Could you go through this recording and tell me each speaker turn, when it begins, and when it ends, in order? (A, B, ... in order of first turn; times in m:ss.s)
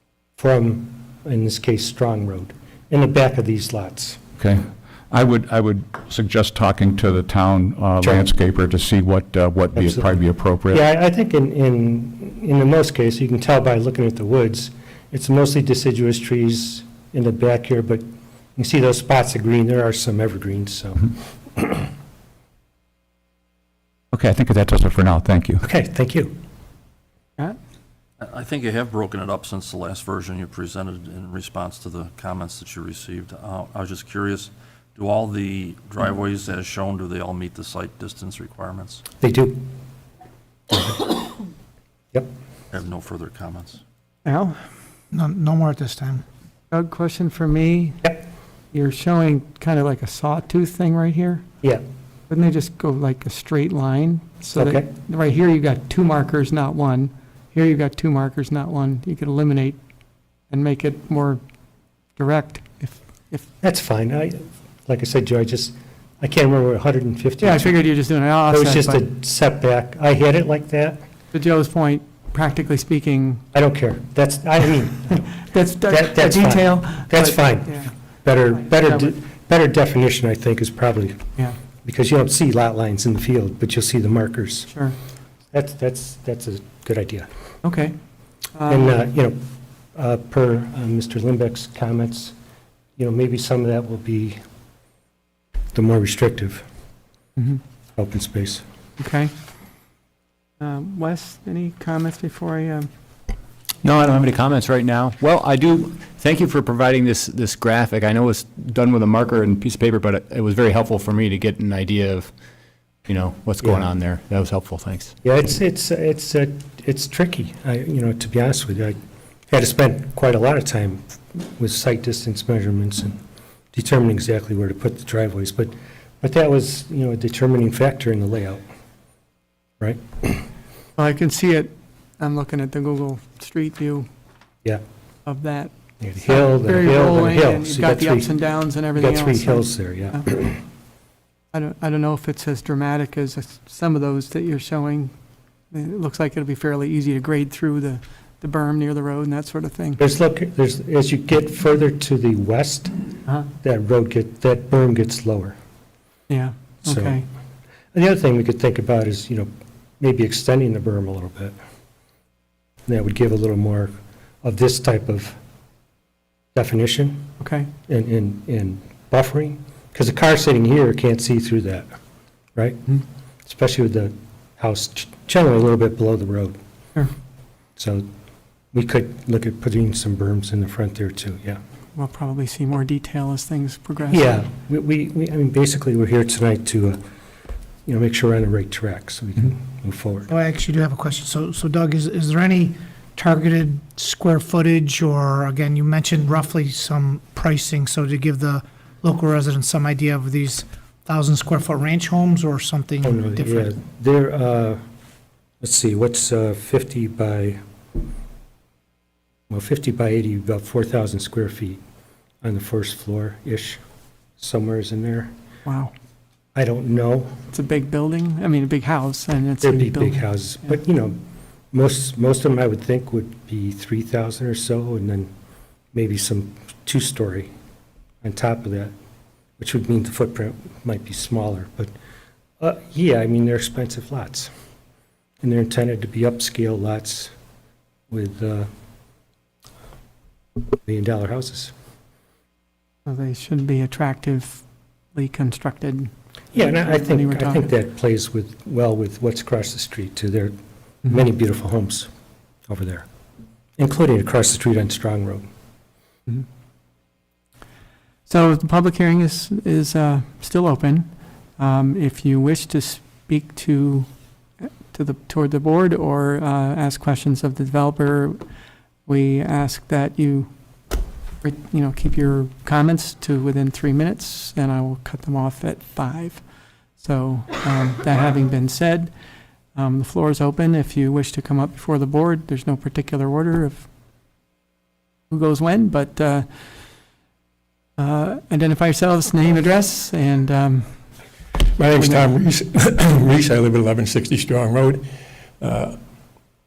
0:00.4-0:04.2 A
0:04.4-0:10.8 B
0:08.0-0:08.3 A
0:09.7-0:10.1 A
0:10.7-0:18.0 A
0:18.6-0:21.9 A
0:24.1-0:25.6 B
0:25.6-0:26.3 A
0:28.2-0:39.0 C
0:39.2-0:39.6 A
0:40.7-0:41.1 A
0:42.7-0:43.8 C
0:44.2-0:44.6 D
0:45.1-0:46.2 E
0:46.7-0:48.1 D
0:48.7-0:51.4 D
0:52.3-0:59.8 D
0:54.5-0:54.9 A
1:00.5-1:01.4 D
1:02.2-1:03.5 D
1:03.6-1:07.8 A
1:07.4-1:09.0 D
1:08.5-1:11.0 A
1:11.3-1:13.4 D
1:13.5-1:15.3 A
1:15.4-1:17.9 D
1:15.9-1:21.2 A
1:18.6-1:19.2 D
1:21.8-1:24.7 A
1:24.7-1:24.9 D
1:25.5-1:27.3 A
1:27.6-1:27.9 D
1:28.5-1:29.0 D
1:28.7-1:29.4 A
1:29.9-1:32.3 A
1:33.0-1:34.4 A
1:35.7-1:36.6 A
1:38.0-1:38.6 A
1:39.0-1:39.3 D
1:40.6-1:42.9 D
1:43.8-1:52.3 F
1:53.1-1:55.1 F
1:55.2-1:59.0 A
1:59.5-2:03.2 A
2:03.7-2:08.6 A
2:09.8-2:10.4 A
2:11.0-2:14.1 D
2:15.2-2:20.2 D
2:16.0-2:18.3 A
2:18.9-2:20.6 A
2:21.5-2:25.1 D
2:25.7-2:30.0 D
2:30.0-2:32.9 A
2:33.5-2:35.6 A
2:36.3-2:37.2 D
2:36.8-2:37.2 A
2:37.9-2:39.5 A
2:40.0-2:41.5 A
2:42.9-2:43.9 A
2:44.4-2:45.4 A
2:46.5-2:47.3 A
2:47.4-2:47.7 D
2:47.9-2:51.9 A
2:52.5-2:52.9 A
2:53.4-2:56.6 A
2:57.8-2:58.0 A
2:58.7-3:01.6 A
3:01.9-3:04.4 D
3:04.1-3:07.0 A
3:07.8-3:10.3 A
3:10.3-3:23.6 E
3:23.0-3:24.8 A
3:25.6-3:27.6 A
3:29.5-3:31.8 A
3:32.4-3:33.8 A
3:34.4-3:35.3 A
3:35.6-3:35.9 D
3:36.5-3:37.4 A
3:37.5-3:40.6 D
3:39.6-3:41.2 A
3:41.7-3:45.3 A
3:45.9-3:47.5 A
3:48.2-3:48.9 A
3:49.6-3:51.9 A
3:52.6-3:54.5 A
3:55.4-3:57.3 A
3:58.1-3:58.7 A
4:00.8-4:01.7 A
4:03.0-4:04.6 D
4:05.1-4:07.7 D
4:06.5-4:10.5 A
4:11.0-4:12.1 A
4:12.7-4:13.0 A
4:13.8-4:15.4 A
4:18.3-4:24.1 D
4:24.6-4:28.4 D
4:29.1-4:30.5 D
4:31.4-4:36.4 D
4:37.0-4:39.1 D
4:39.7-4:43.9 D
4:45.3-4:46.4 D
4:48.0-4:51.0 D
4:51.7-4:56.0 G
4:52.0-4:52.3 D